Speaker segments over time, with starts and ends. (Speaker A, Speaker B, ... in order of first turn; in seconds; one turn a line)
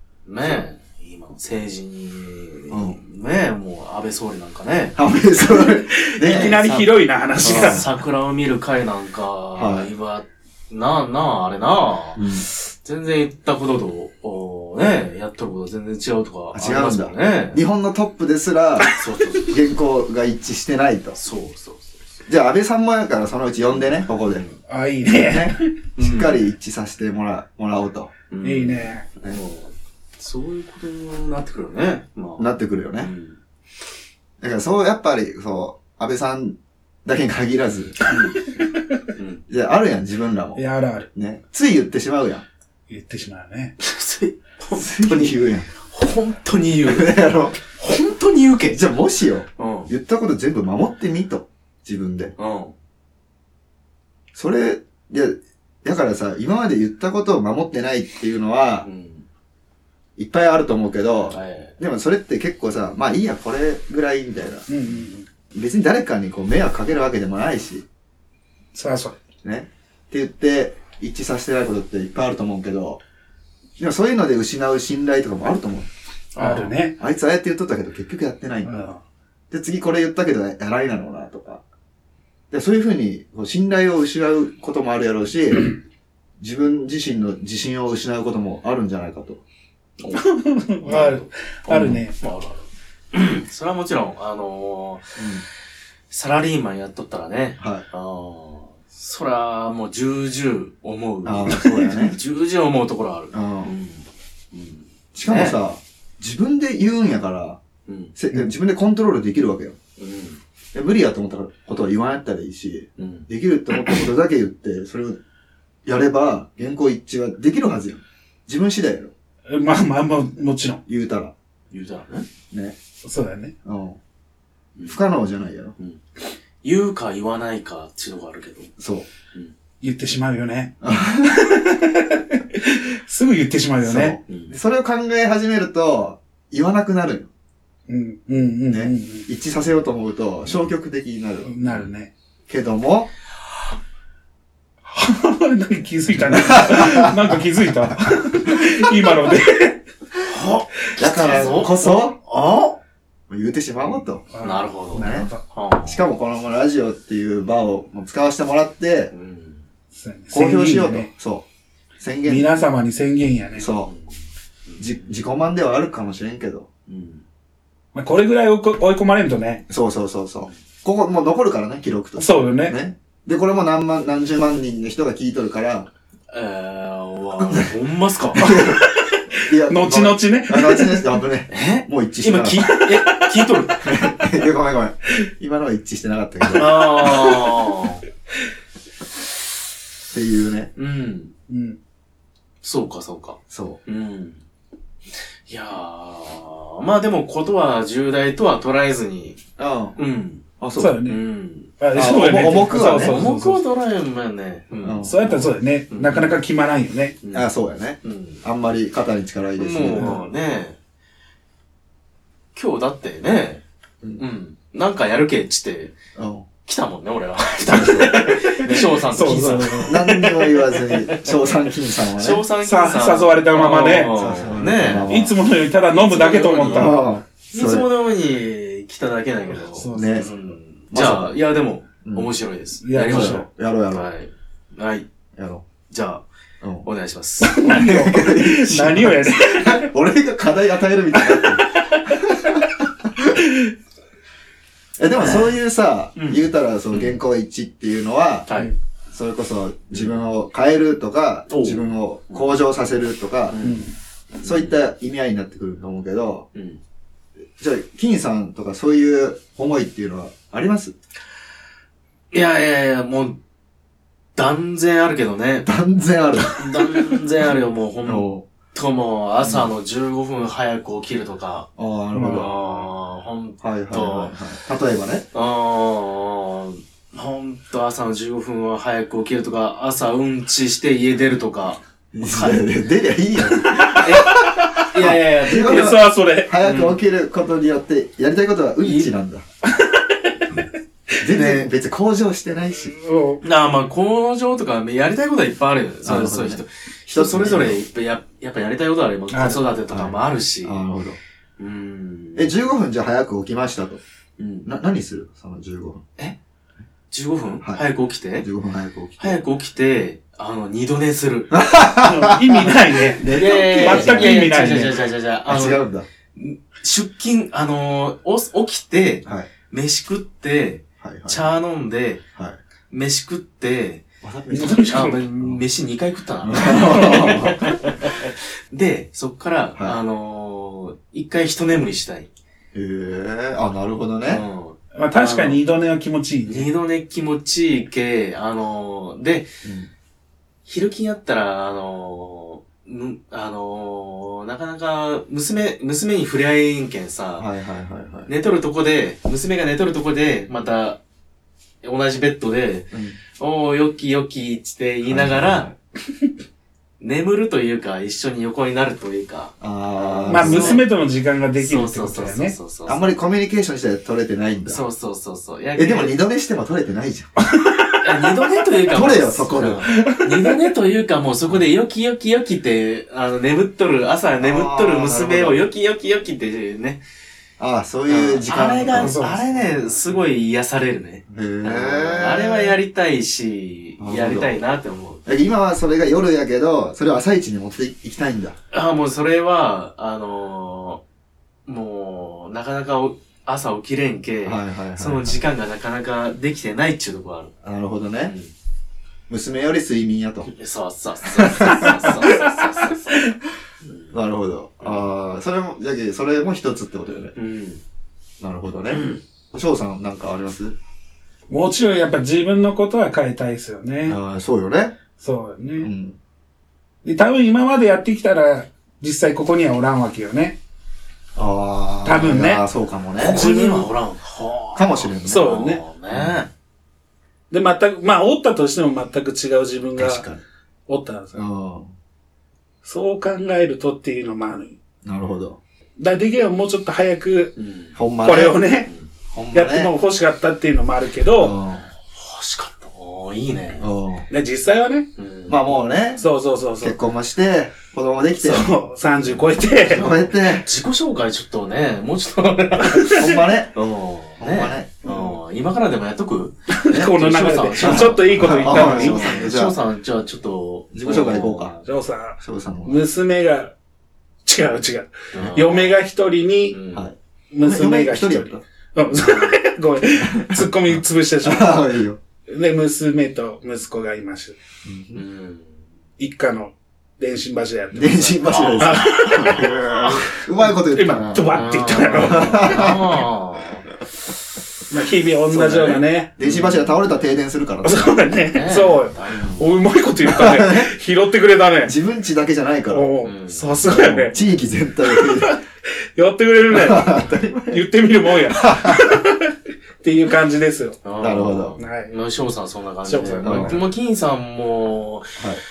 Speaker A: 0.3-5.0
Speaker B: 2.7-3.0
Speaker B: 5.0-6.6
Speaker C: 5.6-7.9
Speaker A: 6.3-17.6
Speaker B: 7.4-7.7
Speaker B: 9.6-9.9
Speaker B: 12.2-12.5
Speaker B: 16.5-18.9
Speaker A: 18.9-19.6
Speaker B: 19.4-21.2
Speaker A: 21.2-22.1
Speaker B: 22.3-24.4
Speaker A: 23.7-24.6
Speaker C: 24.7-25.8
Speaker B: 25.0-28.1
Speaker A: 26.0-26.4
Speaker A: 28.3-32.5
Speaker C: 28.4-29.1
Speaker B: 32.4-33.1
Speaker A: 33.0-33.4
Speaker B: 34.4-38.1
Speaker A: 38.0-38.6
Speaker C: 38.6-39.1
Speaker A: 39.1-39.4
Speaker B: 39.5-42.5
Speaker C: 40.6-41.1
Speaker C: 42.9-43.7
Speaker A: 43.8-48.8
Speaker B: 44.7-45.7
Speaker B: 46.9-47.6
Speaker B: 48.7-52.3
Speaker A: 49.6-49.9
Speaker A: 52.4-52.7
Speaker B: 54.4-58.9
Speaker A: 58.8-59.3
Speaker B: 60.2-64.7
Speaker A: 61.3-61.8
Speaker C: 64.7-65.3
Speaker B: 65.5-67.8
Speaker C: 68.7-69.2
Speaker B: 69.4-73.0
Speaker B: 73.8-75.9
Speaker A: 76.3-76.8
Speaker C: 76.4-77.0
Speaker B: 77.0-78.7
Speaker C: 78.7-79.0
Speaker B: 79.5-81.6
Speaker B: 82.5-85.8
Speaker B: 86.4-89.4
Speaker A: 90.0-90.2
Speaker C: 90.1-92.3
Speaker A: 90.8-95.2
Speaker B: 91.7-92.0
Speaker B: 95.2-95.5
Speaker A: 96.1-105.6
Speaker B: 97.6-97.8
Speaker B: 101.2-102.2
Speaker B: 103.3-103.7
Speaker B: 105.2-107.6
Speaker A: 107.9-108.1
Speaker B: 108.2-109.8
Speaker A: 110.0-110.4
Speaker B: 110.7-115.2
Speaker A: 113.0-113.3
Speaker B: 115.9-119.1
Speaker C: 119.5-120.8
Speaker B: 120.9-121.3
Speaker A: 121.7-122.3
Speaker C: 123.0-123.5
Speaker B: 123.7-124.0
Speaker B: 124.8-125.8
Speaker A: 126.6-128.7
Speaker B: 128.8-129.1
Speaker C: 129.8-134.2
Speaker B: 130.8-131.6
Speaker B: 133.8-137.3
Speaker A: 134.3-134.6
Speaker C: 137.9-139.3
Speaker B: 138.7-141.5
Speaker C: 141.4-142.1
Speaker A: 141.7-141.9
Speaker B: 142.5-143.1
Speaker C: 144.9-149.8
Speaker B: 146.3-147.4
Speaker A: 150.2-152.8
Speaker B: 151.0-152.2
Speaker C: 151.0-151.7
Speaker B: 153.3-154.2
Speaker A: 153.9-156.0
Speaker C: 154.3-155.4
Speaker B: 154.9-155.3
Speaker B: 155.8-159.1
Speaker A: 159.1-159.6
Speaker C: 159.9-161.1
Speaker B: 160.3-161.5
Speaker B: 162.0-162.5
Speaker C: 162.3-163.7
Speaker B: 163.6-163.9
Speaker A: 163.9-164.1
Speaker A: 164.7-165.1
Speaker B: 164.8-166.7
Speaker A: 166.9-167.2
Speaker C: 167.9-169.6
Speaker B: 169.7-175.9
Speaker C: 172.2-172.8
Speaker A: 176.3-178.6
Speaker B: 178.3-182.6
Speaker C: 178.4-181.1
Speaker A: 181.5-183.8
Speaker C: 182.6-183.7
Speaker B: 183.8-187.1
Speaker A: 186.5-188.0
Speaker C: 187.1-187.5
Speaker B: 190.1-190.7
Speaker A: 190.8-191.3
Speaker C: 191.5-191.8
Speaker A: 192.6-194.4
Speaker B: 193.5-193.8
Speaker A: 195.5-199.4
Speaker B: 199.6-200.0
Speaker A: 200.0-200.4
Speaker B: 200.6-201.0
Speaker C: 200.8-201.2
Speaker A: 201.1-201.7
Speaker C: 201.8-203.6
Speaker B: 201.9-203.2
Speaker A: 202.8-206.3
Speaker B: 204.8-205.3
Speaker C: 205.0-207.2
Speaker B: 207.3-210.2
Speaker A: 208.0-208.4
Speaker A: 209.6-210.8
Speaker C: 209.9-210.2
Speaker A: 212.6-213.6
Speaker A: 214.2-216.0
Speaker B: 216.2-216.5
Speaker A: 216.7-221.4
Speaker C: 217.7-220.0
Speaker B: 219.8-222.4
Speaker A: 222.2-225.1
Speaker C: 222.6-224.2
Speaker B: 224.2-225.3
Speaker C: 225.1-227.1
Speaker A: 226.0-235.1
Speaker B: 226.7-227.9
Speaker C: 229.5-230.2
Speaker B: 229.9-230.3
Speaker B: 230.9-231.4
Speaker B: 232.0-232.3
Speaker C: 232.8-233.5
Speaker B: 233.1-234.1
Speaker B: 235.4-235.6
Speaker A: 235.9-236.2
Speaker B: 236.6-236.9
Speaker A: 236.8-237.6
Speaker C: 237.4-239.9
Speaker B: 237.6-243.2
Speaker C: 241.2-241.7
Speaker C: 243.3-243.7
Speaker B: 245.0-248.5
Speaker A: 245.2-245.5
Speaker A: 246.2-247.2
Speaker A: 248.5-248.7
Speaker B: 249.1-253.6
Speaker A: 251.5-252.6
Speaker A: 253.5-253.9
Speaker C: 253.6-253.9
Speaker A: 254.4-254.7
Speaker B: 254.4-256.5
Speaker A: 256.6-256.8
Speaker B: 257.6-260.9
Speaker A: 262.3-263.4
Speaker A: 264.4-265.7
Speaker B: 265.7-267.1
Speaker A: 266.6-271.7
Speaker B: 268.1-268.4
Speaker B: 269.4-269.7
Speaker B: 271.8-272.5
Speaker C: 272.1-272.9
Speaker A: 272.3-274.4
Speaker B: 273.6-275.3
Speaker A: 275.3-282.6
Speaker B: 282.1-289.4
Speaker C: 283.7-286.5
Speaker A: 283.7-286.0
Speaker A: 286.6-287.0
Speaker A: 288.8-289.1
Speaker C: 289.6-290.6
Speaker B: 291.2-293.0
Speaker C: 291.2-291.6
Speaker C: 292.8-293.4
Speaker A: 293.4-301.0
Speaker B: 296.0-297.8
Speaker C: 299.3-299.7
Speaker B: 299.9-301.2
Speaker A: 301.6-302.5
Speaker B: 302.4-304.0
Speaker A: 304.4-304.7
Speaker B: 304.6-306.1
Speaker A: 307.1-308.5
Speaker B: 308.4-309.4
Speaker A: 309.2-311.5
Speaker B: 311.5-314.4
Speaker C: 311.9-315.0
Speaker A: 313.2-315.8
Speaker B: 315.5-316.1
Speaker A: 316.4-322.2
Speaker B: 319.2-319.5
Speaker B: 321.0-321.5
Speaker A: 322.9-324.0
Speaker B: 324.2-325.6
Speaker C: 324.5-325.6
Speaker A: 324.9-332.3
Speaker B: 326.4-327.7
Speaker C: 326.7-327.7
Speaker B: 332.7-334.4
Speaker A: 334.3-335.6
Speaker C: 334.9-336.7
Speaker A: 336.5-339.5
Speaker B: 339.6-339.9
Speaker A: 340.7-347.5
Speaker B: 347.4-348.3
Speaker A: 348.3-351.0
Speaker A: 351.8-355.7
Speaker B: 352.9-353.2
Speaker B: 355.1-355.8
Speaker A: 357.0-360.9
Speaker B: 359.6-360.8
Speaker C: 360.3-362.6
Speaker A: 361.6-363.1
Speaker B: 362.9-364.8
Speaker A: 364.7-366.2
Speaker B: 365.8-367.3
Speaker C: 367.4-368.3
Speaker A: 368.0-377.0
Speaker B: 368.9-369.9
Speaker C: 369.9-370.8
Speaker B: 374.4-375.6
Speaker B: 377.6-379.2
Speaker A: 378.1-385.2
Speaker C: 378.9-379.4
Speaker B: 381.3-382.8
Speaker B: 384.0-384.6
Speaker B: 385.3-388.6
Speaker A: 388.7-391.0
Speaker A: 391.7-397.5
Speaker B: 394.4-395.4
Speaker B: 397.6-398.4
Speaker B: 399.3-400.5
Speaker A: 400.5-403.2
Speaker B: 401.4-402.1
Speaker C: 401.7-403.3
Speaker A: 403.8-404.1
Speaker B: 404.1-407.3
Speaker A: 407.4-407.8
Speaker B: 408.4-410.8
Speaker A: 408.9-409.2
Speaker C: 411.5-414.2
Speaker B: 414.1-414.9
Speaker C: 415.2-415.9
Speaker B: 415.8-416.2
Speaker C: 417.0-420.6
Speaker B: 421.4-423.4
Speaker C: 422.0-422.6
Speaker A: 423.2-426.5
Speaker C: 423.2-423.9
Speaker B: 424.8-425.5
Speaker C: 425.2-425.8
Speaker B: 426.1-426.5
Speaker C: 427.5-430.3
Speaker B: 430.0-430.4
Speaker C: 430.9-431.4
Speaker B: 431.3-431.9
Speaker C: 432.8-434.8
Speaker B: 435.1-435.6
Speaker C: 436.0-437.6
Speaker A: 437.6-437.9
Speaker B: 437.9-438.7
Speaker C: 438.2-438.9
Speaker B: 439.3-439.9
Speaker C: 439.5-441.6
Speaker B: 441.4-441.9
Speaker A: 442.1-443.9
Speaker B: 443.8-444.3
Speaker C: 444.3-445.1
Speaker A: 445.2-445.6
Speaker B: 445.5-446.2
Speaker C: 446.2-447.0
Speaker B: 446.8-448.7
Speaker C: 448.4-450.1
Speaker A: 449.7-461.9
Speaker B: 449.9-450.7
Speaker C: 452.8-453.3
Speaker B: 453.2-453.7
Speaker B: 454.4-455.2
Speaker C: 455.1-455.3
Speaker C: 456.7-459.4
Speaker B: 457.8-459.8
Speaker B: 460.9-461.8
Speaker C: 461.9-463.7
Speaker B: 462.4-463.0
Speaker C: 464.4-466.8
Speaker A: 465.3-465.9
Speaker A: 466.7-467.1
Speaker B: 466.9-468.6
Speaker C: 467.5-471.9
Speaker B: 470.2-472.2
Speaker C: 472.5-474.6
Speaker B: 474.9-475.2
Speaker A: 475.1-475.7
Speaker C: 476.2-480.4
Speaker B: 477.9-483.2
Speaker A: 478.4-479.1
Speaker C: 480.9-483.0
Speaker A: 481.5-483.9
Speaker C: 484.9-486.3
Speaker B: 485.5-488.2
Speaker A: 486.4-486.9
Speaker C: 487.8-491.9
Speaker A: 488.5-489.7
Speaker B: 490.2-490.9
Speaker B: 491.9-493.1
Speaker C: 492.9-494.4
Speaker A: 493.2-494.5
Speaker B: 493.9-495.6
Speaker C: 495.1-495.6
Speaker C: 496.1-501.0
Speaker B: 496.7-497.8
Speaker B: 498.5-499.1
Speaker A: 501.1-505.4
Speaker B: 501.2-501.8
Speaker C: 501.8-502.1
Speaker C: 503.1-503.8
Speaker B: 503.4-503.8